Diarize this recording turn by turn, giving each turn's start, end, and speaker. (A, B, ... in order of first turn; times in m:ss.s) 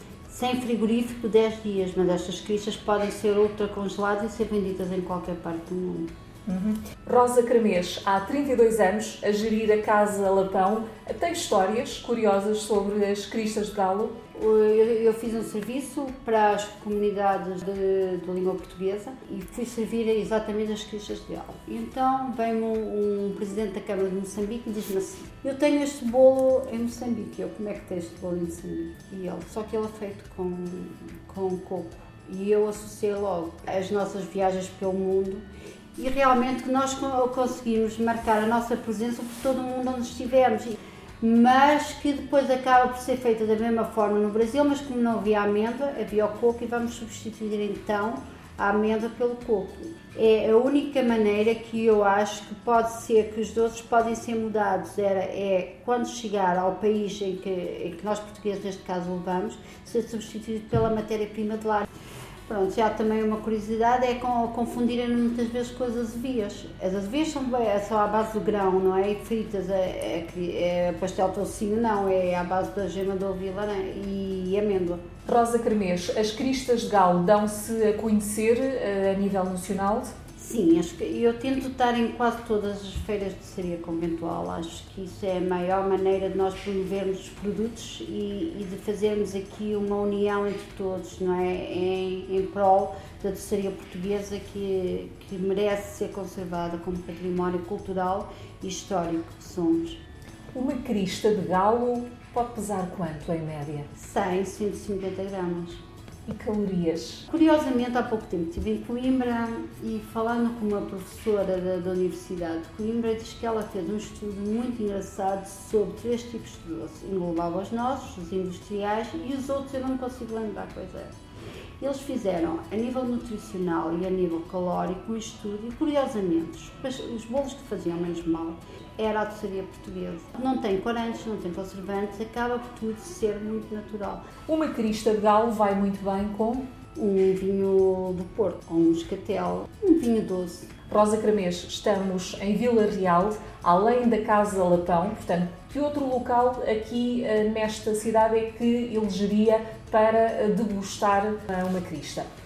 0:00.3-0:06.1 A
0:06.5-0:14.2 B
0:14.3-0:35.4 A
0:36.0-1:01.9 A
1:02.5-1:15.0 A
1:15.3-1:20.1 B
1:20.4-1:40.0 A
1:40.5-1:43.9 B
1:44.0-1:45.8 A
1:46.3-1:47.2 B
1:47.3-2:01.1 A
2:01.8-2:14.3 A
2:14.5-2:16.7 B
2:17.0-2:20.7 A
2:20.9-2:32.3 B